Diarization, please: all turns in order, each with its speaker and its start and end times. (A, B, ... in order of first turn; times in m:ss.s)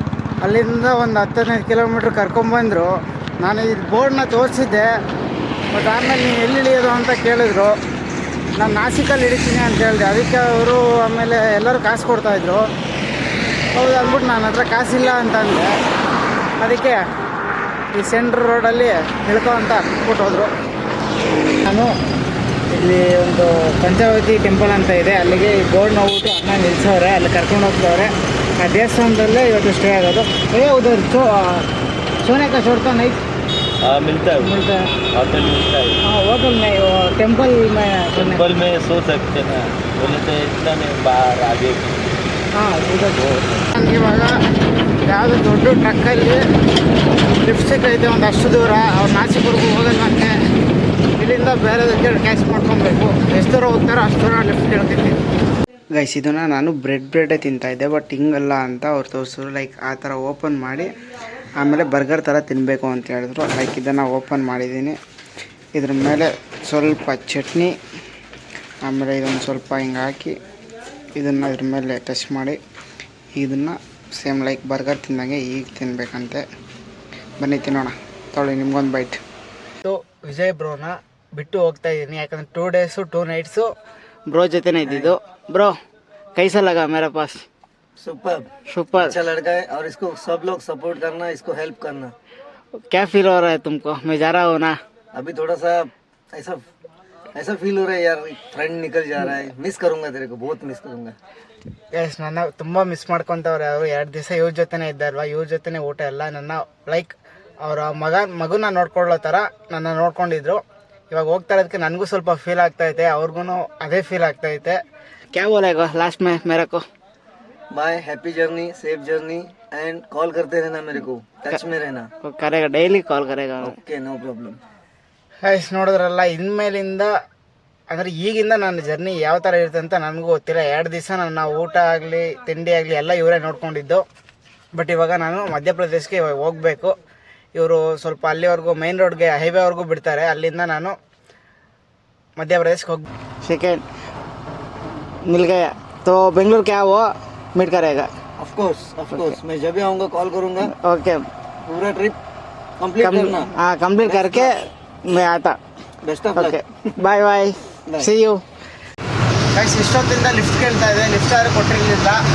0:00.4-0:05.0 A
0:05.7-0:07.7 A
0:08.6-0:12.7 A
0:13.8-0:15.7 A
0:16.6-0:17.0 A
0:17.9-0:20.5 A
0:21.6-0:21.9 A
0:22.7-0:31.7 A
0:32.2-0:33.2 A
0:33.8-0:34.5 B
0:34.4-0:34.9 A
0:35.1-0:36.0 B
0:36.0-0:38.5 A
0:38.2-0:42.0 B
0:42.6-0:44.3 A
0:45.1-0:46.4 A
0:47.4-0:50.3 A
0:51.2-0:55.2 A
0:56.0-1:00.9 A
1:01.6-1:05.0 A
1:05.8-1:07.7 A
1:08.8-1:10.4 A
1:11.2-1:12.6 A
1:13.4-1:16.4 A
1:17.4-1:19.2 A
1:19.8-1:23.7 A
1:24.3-1:25.8 A
1:24.9-1:25.1 C
1:26.4-1:27.4 A
1:28.0-1:32.1 C
1:28.7-1:29.2 A
1:32.9-1:34.8 A
1:35.1-1:36.6 C
1:37.4-1:41.2 C
1:42.0-1:54.8 A
1:55.3-1:56.8 A
1:57.7-2:02.1 C
2:02.2-2:03.7 A
2:03.6-2:04.6 C
2:05.4-2:07.1 A
2:07.9-2:14.0 A
2:14.7-2:17.0 A
2:17.6-2:21.0 A
2:22.4-2:23.8 A
2:25.3-2:28.1 A
2:28.4-2:30.7 C
2:30.7-2:31.2 A
2:31.7-2:32.2 C
2:32.8-2:33.5 C
2:33.0-2:35.6 A
2:34.0-2:34.5 C
2:36.0-2:36.6 C
2:36.4-2:38.4 A
2:39.5-2:42.2 A